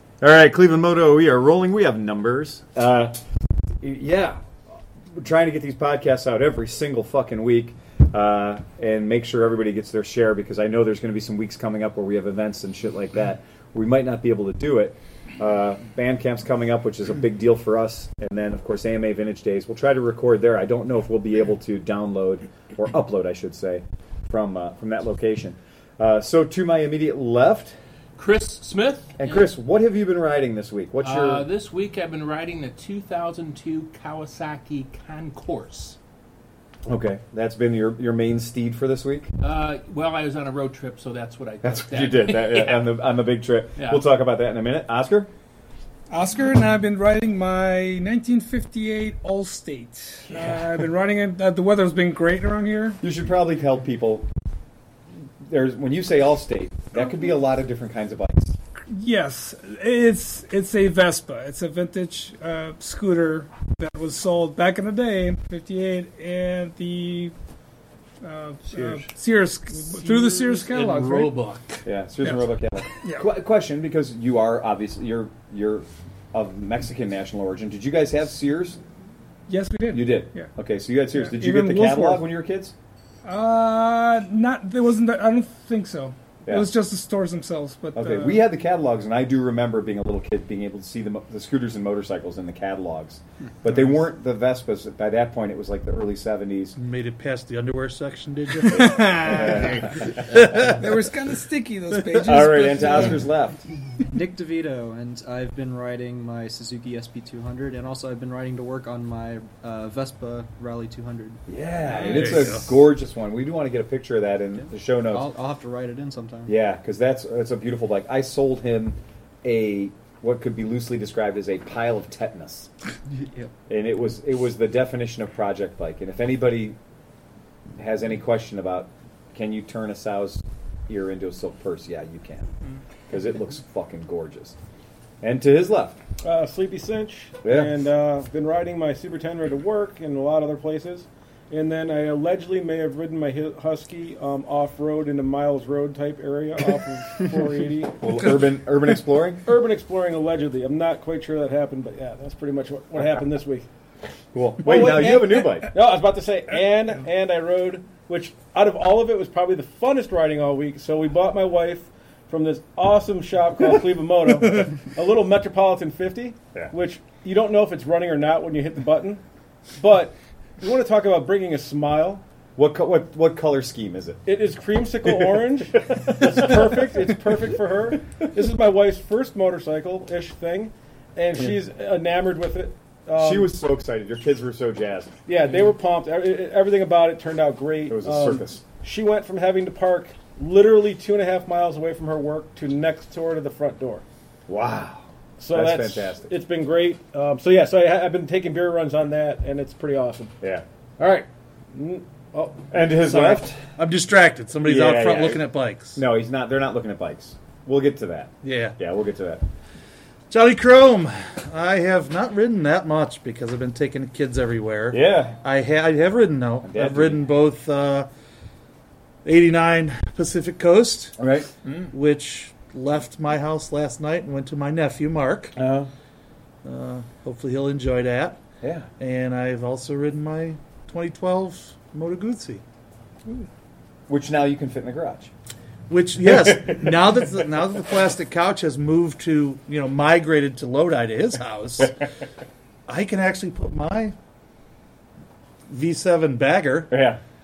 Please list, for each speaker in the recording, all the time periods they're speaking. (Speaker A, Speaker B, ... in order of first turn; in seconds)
Speaker A: 0.2-3.2, 3.8-4.5, 5.1-27.8, 29.2-31.5, 36.9-39.3, 41.6-45.3, 53.0-54.3, 55.4-58.6, 68.7-69.0, 71.8-78.8, 79.9-82.8, 86.5-86.7, 88.0-96.8, 98.7-100.7, 102.0-103.6, 111.5-115.3, 116.5-122.7, 123.7-126.8, 127.8-132.5, 133.1-134.6, 135.2-136.0, 137.4-137.7, 148.0-149.4, 154.3-155.8, 172.6-174.2, 183.2-185.1, 187.9-188.6, 194.5-196.3, 202.7-203.7, 204.6-205.4, 205.9-209.4, 214.9-215.4, 216.6-217.2, 221.2-221.5, 225.6-225.9, 228.6-228.9, 234.1-235.3, 236.2-237.2, 246.9-247.2
Speaker B: 28.2-29.5, 31.0-36.0, 39.4-42.9, 43.8-44.0
Speaker C: 46.1-53.0, 58.9-67.3, 68.2-71.4, 73.0-73.3, 79.5-80.5, 81.1-82.2, 83.2-88.5, 98.7-99.9, 100.7-103.2
Speaker D: 70.0-71.8, 96.8-99.4, 100.2-100.7, 112.0-112.8, 203.0-206.0, 208.4-208.8, 210.3-218.1, 219.2-221.1, 221.7-225.6, 226.6-228.4, 229.0-232.6, 235.9-241.9, 242.9-244.2, 245.7-246.9
Speaker E: 104.1-111.4, 114.6-116.5, 123.1-123.5
Speaker F: 136.2-148.0, 149.4-153.7, 154.6-169.2, 169.8-172.2, 174.3-183.5, 185.3-194.0, 195.4-200.3, 201.0-202.9